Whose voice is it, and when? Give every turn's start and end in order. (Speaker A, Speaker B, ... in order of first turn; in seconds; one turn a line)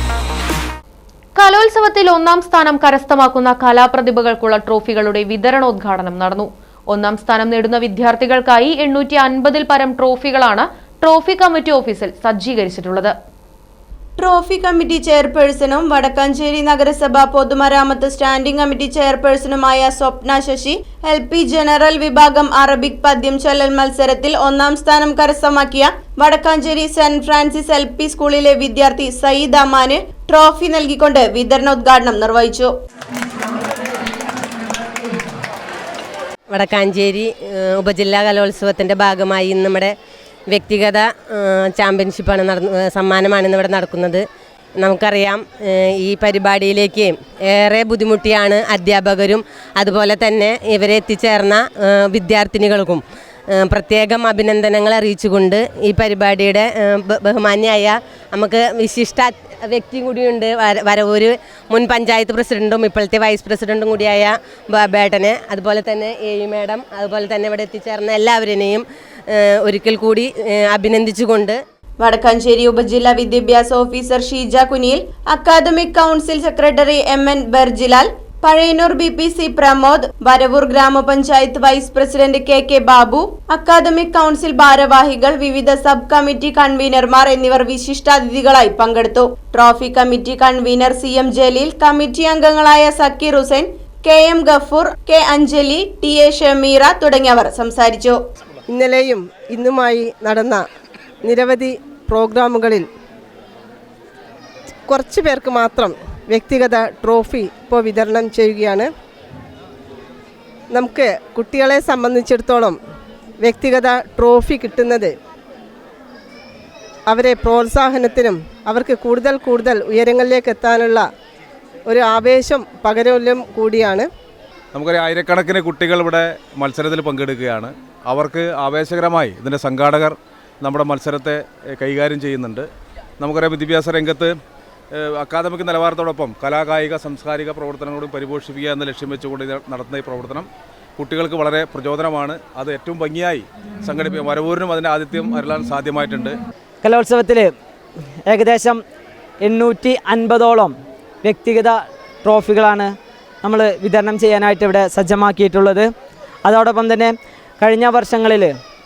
Speaker A: 1.4-13.1
Speaker B: 14.2-32.7
Speaker C: 36.5-39.9
Speaker C: 40.5-44.2
Speaker C: 44.8-71.5
Speaker B: 72.0-98.2
Speaker D: 98.7-100.6
Speaker D: 101.2-102.9
Speaker D: 104.9-108.9
Speaker D: 110.7-112.8
Speaker D: 113.4-115.1
Speaker D: 117.1-121.0
Speaker D: 121.9-124.1
Speaker E: 124.7-132.7
Speaker E: 133.2-134.3
Speaker E: 134.9-146.3
Speaker F: 146.8-147.5
Speaker F: 148.2-148.8
Speaker F: 149.4-155.9
Speaker F: 156.4-158.6